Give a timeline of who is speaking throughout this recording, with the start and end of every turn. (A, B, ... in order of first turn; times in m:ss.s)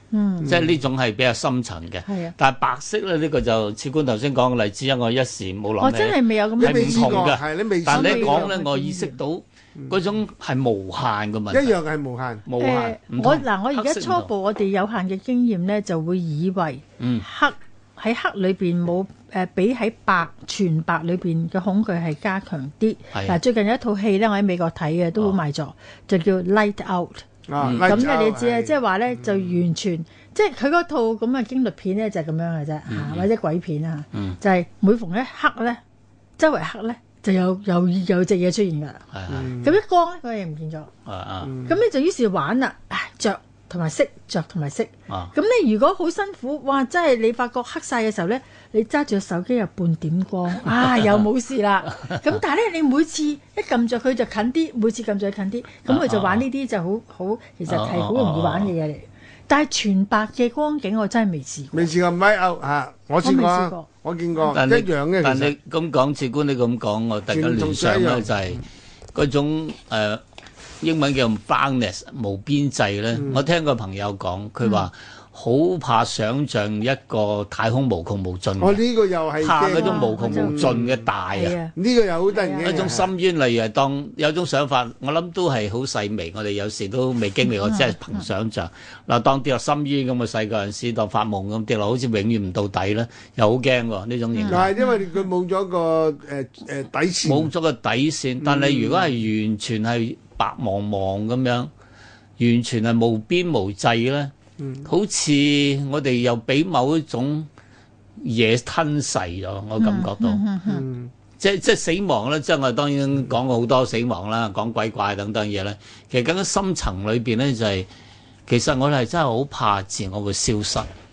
0:00.1-0:00.5 A
0:00.4-0:00.8 B
0:00.4-0:11.8 C
0:02.1-0:02.4 A
0:05.8-0:07.4 A
0:06.6-0:08.5 B
0:07.9-0:09.2 A
0:11.5-0:12.4 B
0:12.4-0:14.3 C
0:12.6-0:27.2 A
0:17.0-0:17.3 C
0:23.1-0:23.4 C
0:27.5-0:29.6 B
0:27.6-0:28.1 C
0:27.8-0:35.8 A
0:32.9-0:33.3 C
0:36.4-0:40.9 A
0:39.1-0:39.5 C
0:39.3-0:39.7 B
0:41.1-0:41.6 C
0:41.4-0:41.8 B
0:41.6-1:01.9 A
0:50.9-0:51.2 C
0:55.9-0:56.4 C
0:57.7-0:58.7 C
1:01.7-1:05.5 B
1:03.2-1:03.9 A
1:04.5-1:10.2 C
1:07.3-1:08.3 B
1:10.8-1:18.8 C
1:13.1-1:13.4 B
1:18.6-1:21.0 B
1:19.4-1:21.6 C
1:19.7-1:20.8 A
1:21.3-1:21.7 A
1:21.8-1:23.1 B
1:22.3-1:22.9 A
1:22.6-1:34.7 C
1:27.5-1:28.2 A
1:34.3-1:35.1 A
1:34.5-1:37.5 B
1:37.2-1:41.7 C
1:38.4-1:39.2 B
1:42.4-1:44.3 C
1:44.6-1:44.9 B
1:44.8-1:47.5 C
1:48.2-1:50.4 C
1:49.8-1:50.8 A
1:50.7-1:51.1 B
1:51.4-1:57.9 C
1:58.5-2:00.9 C